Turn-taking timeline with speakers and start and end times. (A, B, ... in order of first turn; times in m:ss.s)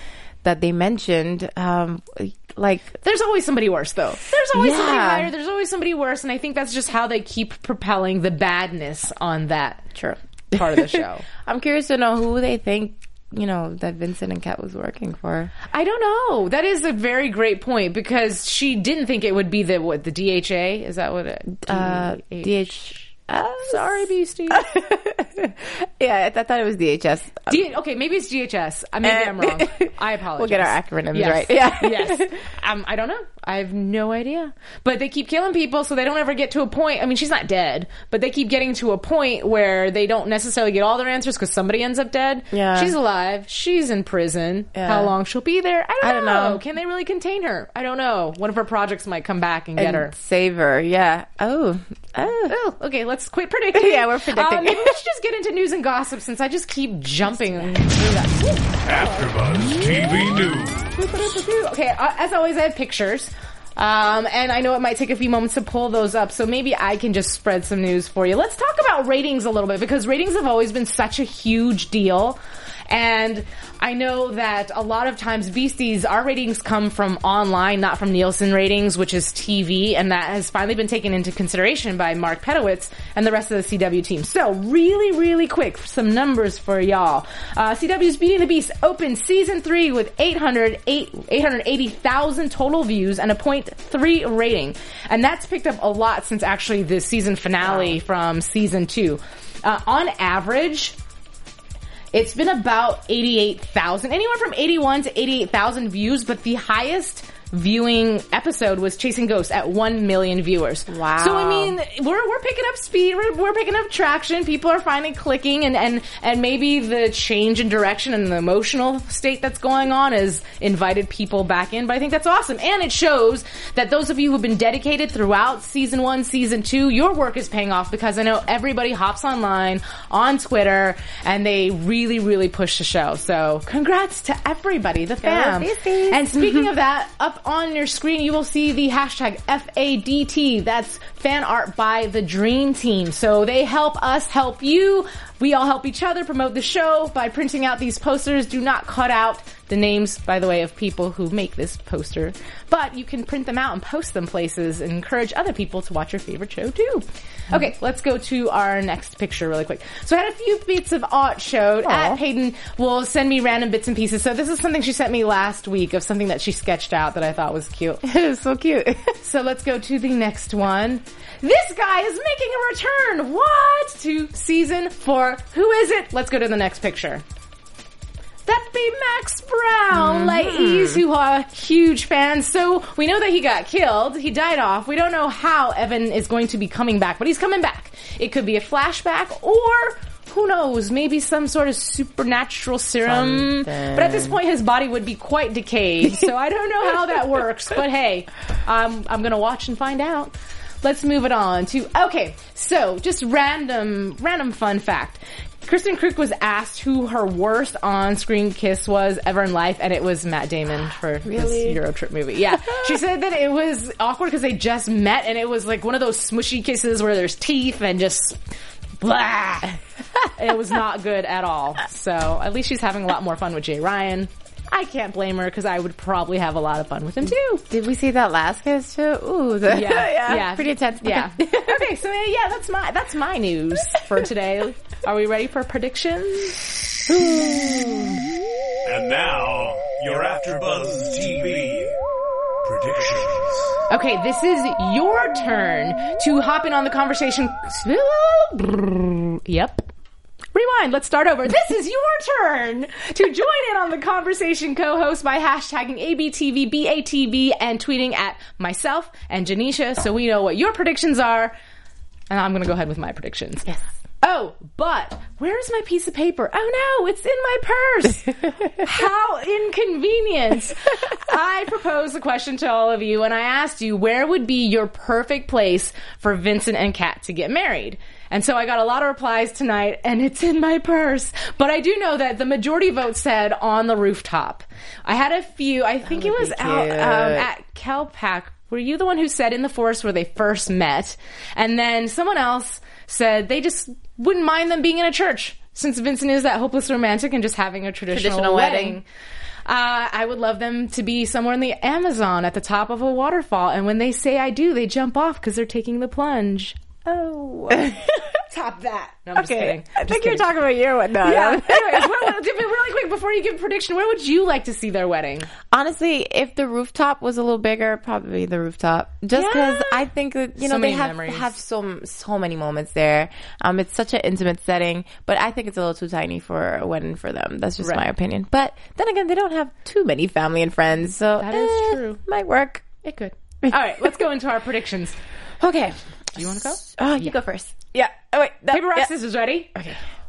0:00.4-0:03.0 A
0:03.0-0:09.9 B
0:04.4-0:05.3 A
0:09.9-0:15.5 A
0:10.5-0:11.2 B
0:15.7-0:23.1 B
0:21.6-0:27.6 A
0:23.6-0:24.7 B
0:27.5-0:50.1 B
0:29.0-0:32.4 A
0:42.5-0:42.9 A
0:44.7-0:45.1 A
0:46.0-0:46.6 A
0:49.8-0:52.5 A
0:52.5-0:59.3 B
0:53.7-0:55.0 A
0:57.3-0:57.9 A
0:58.8-1:01.0 C
0:59.8-1:12.4 B
1:12.9-1:41.0 B
1:37.7-1:38.0 A
1:42.1-2:48.0 B
1:50.9-1:51.8 A
2:15.2-2:16.7 A
2:41.8-2:42.2 A
2:48.0-2:49.1 A
2:49.2-2:57.2 B
2:58.4-3:38.4 B
2:59.9-3:01.0 A
3:13.0-3:14.4 A
3:31.2-3:31.8 A
3:39.0-3:39.8 B
3:40.3-3:47.6 B
3:47.6-3:51.9 A
3:49.7-3:56.6 B
3:57.1-3:58.2 A
3:58.8-4:01.9 C
4:02.6-4:03.8 C
4:03.9-4:09.8 B
4:10.5-4:21.5 B
4:22.3-4:59.0 B
4:46.0-4:47.5 A
4:58.1-4:59.0 A
4:59.6-5:10.4 B
5:07.7-5:08.2 A
5:09.3-5:12.3 A
5:11.2-5:15.5 B
5:15.7-5:32.9 A
5:19.3-5:20.0 B
5:20.6-5:21.5 B
5:31.4-5:32.2 B
5:33.0-5:35.2 B
5:35.6-5:39.1 A
5:36.4-5:37.4 B
5:38.7-5:39.8 B
5:39.7-5:40.0 A